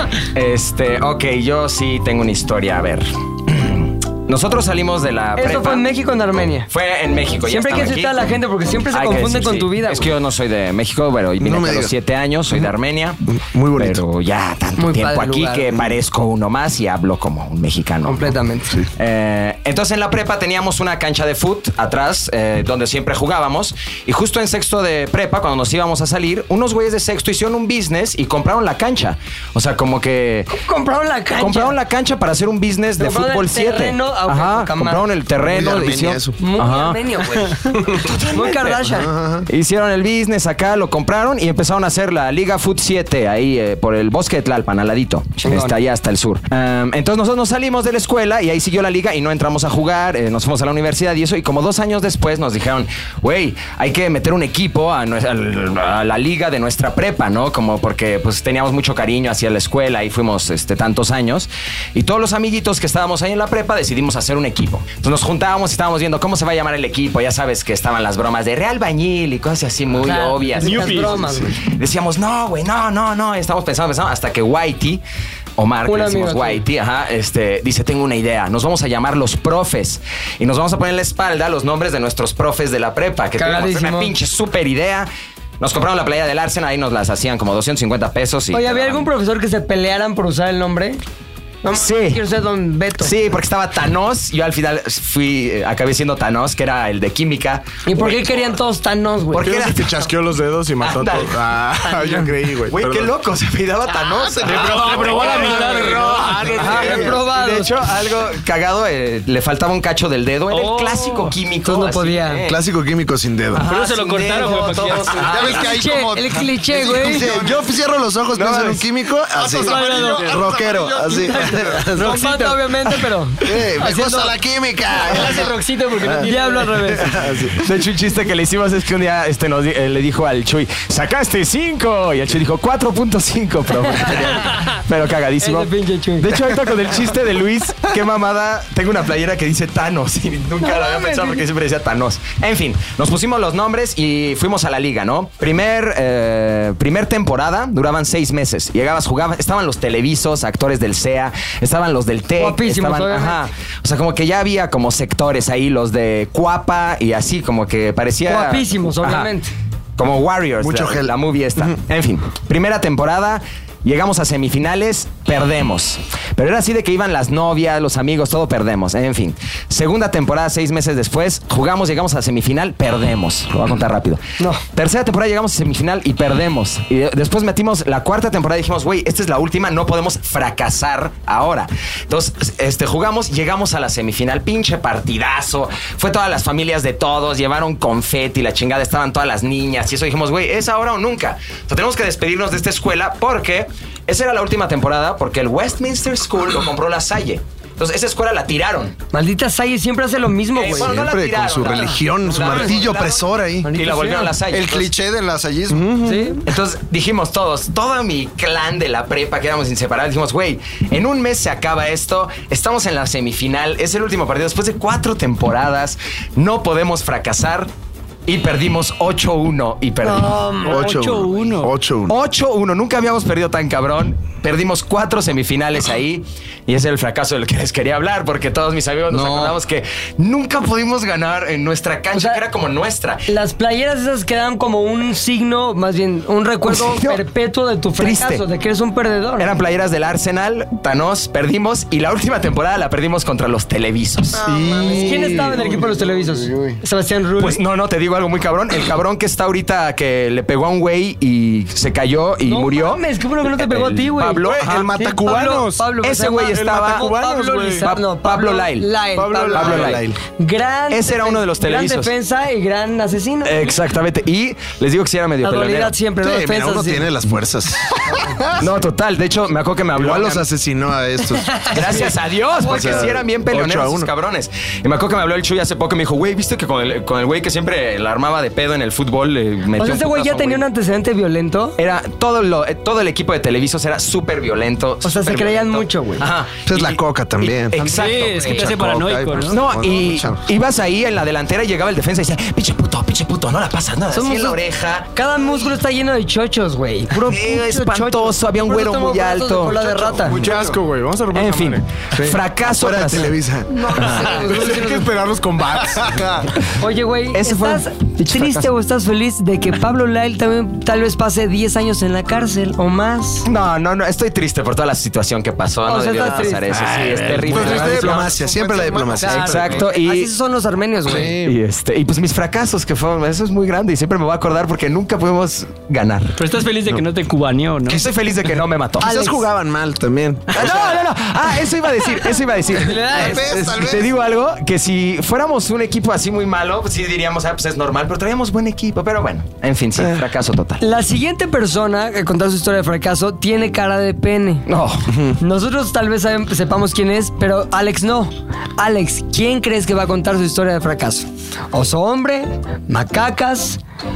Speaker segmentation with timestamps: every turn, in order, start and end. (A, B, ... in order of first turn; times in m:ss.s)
0:00.3-0:05.9 A
0:05.4-0:06.7 B
0:06.7-0:08.3 A
0:07.4-0:10.1 B
0:08.9-0:13.2 A
0:11.4-0:11.9 C
0:13.3-0:14.0 C
0:13.8-0:18.3 A
0:14.8-0:15.9 B
0:18.0-0:18.8 B
0:19.0-0:30.5 A
0:30.5-0:31.8 B
0:31.4-0:37.0 A
0:33.0-0:35.1 B
0:35.4-0:36.4 C
0:36.4-0:39.1 B
0:38.0-0:38.9 A
0:38.9-0:39.5 C
0:39.5-1:15.0 A
0:45.4-0:45.8 B
1:10.0-1:11.5 B
1:10.6-1:11.1 D
1:15.6-1:25.1 A
1:15.8-1:16.6 B
1:23.4-1:24.1 B
1:25.6-1:29.1 A
1:28.5-1:31.0 B
1:31.6-1:33.1 B
1:31.7-1:32.2 A
1:33.0-1:38.4 A
1:37.8-1:39.6 B
1:39.3-1:40.0 A
1:39.3-1:43.1 E
1:40.8-1:41.3 A
1:41.9-1:42.2 B
1:42.7-1:45.9 A
1:44.5-1:47.1 E
1:44.5-1:46.8 D
1:46.6-1:52.6 A
1:46.6-1:47.8 B
1:50.5-1:51.3 D
1:51.6-1:52.4 B
1:52.4-1:53.6 C
1:53.6-1:55.8 A
1:53.6-1:55.3 D
1:55.2-1:56.5 F
1:55.6-1:57.4 B
1:56.7-2:02.6 C
1:59.4-2:01.1 F
1:59.5-2:00.4 B
2:01.1-2:04.4 B
2:03.4-2:07.6 C
2:05.1-2:06.7 D
2:05.2-2:05.5 B
2:06.2-2:07.1 B
2:07.6-2:39.3 A
2:14.0-2:14.5 B
2:15.4-2:16.4 B
2:20.6-2:21.4 B
2:32.4-2:33.4 B
2:38.2-2:39.5 B
2:40.0-2:54.2 A
2:40.6-2:41.8 C
2:54.7-3:19.0 A
3:19.1-3:21.0 B
3:20.5-3:24.9 A
3:20.7-3:23.8 C
3:21.8-3:22.8 B
3:23.6-3:24.3 B
3:24.4-3:25.9 F
3:25.7-3:26.4 C
3:26.0-3:26.4 B
3:26.4-3:37.7 A
3:38.2-3:40.4 A
3:40.0-3:40.8 B
3:40.6-3:41.7 D
3:40.6-3:42.2 C
3:42.1-3:53.2 A
3:52.1-3:52.4 B
3:53.3-3:59.5 B
3:56.6-3:57.2 A
3:58.0-3:58.4 A
3:59.4-4:04.4 A
4:04.4-4:05.8 C
4:04.5-4:06.7 F
4:04.5-4:07.6 B
4:07.4-4:14.9 A
4:12.4-4:23.7 B
4:14.4-4:17.9 E
4:16.0-4:17.1 A
4:17.8-4:18.9 A
4:19.1-4:20.1 E
4:19.5-4:20.1 A
4:19.6-4:20.1 C
4:20.9-4:22.1 A
4:23.4-4:26.0 A
4:25.4-4:27.1 B
4:26.2-4:28.5 C
4:28.6-4:30.4 A
4:29.9-4:32.0 C
4:31.5-4:33.2 B
4:31.7-4:40.6 A
4:32.6-4:34.1 C
4:39.8-4:41.7 B
4:41.8-4:48.7 A
4:45.0-4:46.2 B
4:46.6-4:47.8 C
4:47.8-4:48.5 B
4:47.8-4:49.6 D
4:48.5-4:50.4 C
4:49.5-4:55.0 A
4:54.1-4:54.6 B
4:55.1-5:00.4 B
4:57.2-4:59.9 A
5:00.1-5:01.8 E
5:01.3-5:03.3 A
5:02.1-5:04.3 C
5:03.7-5:05.1 B
5:04.4-5:06.3 E
5:06.8-5:13.4 B
5:07.3-5:08.6 A
5:13.4-5:18.4 A
5:15.8-5:16.7 B
5:16.7-5:19.8 C
5:17.4-5:18.3 E
5:18.4-5:19.2 F
5:19.1-5:21.4 B
5:19.3-5:20.3 A
5:21.0-5:21.5 C
5:21.3-5:26.3 A
5:26.4-5:28.1 D
5:27.9-5:29.1 A
5:29.0-5:29.4 B
5:29.0-5:31.0 C
5:30.5-5:40.8 A
5:32.7-5:33.8 B
5:33.1-5:34.1 F
5:33.2-5:33.7 C
5:40.8-5:44.6 B
5:44.7-5:45.0 A
5:45.1-5:45.4 C
5:45.4-5:53.8 B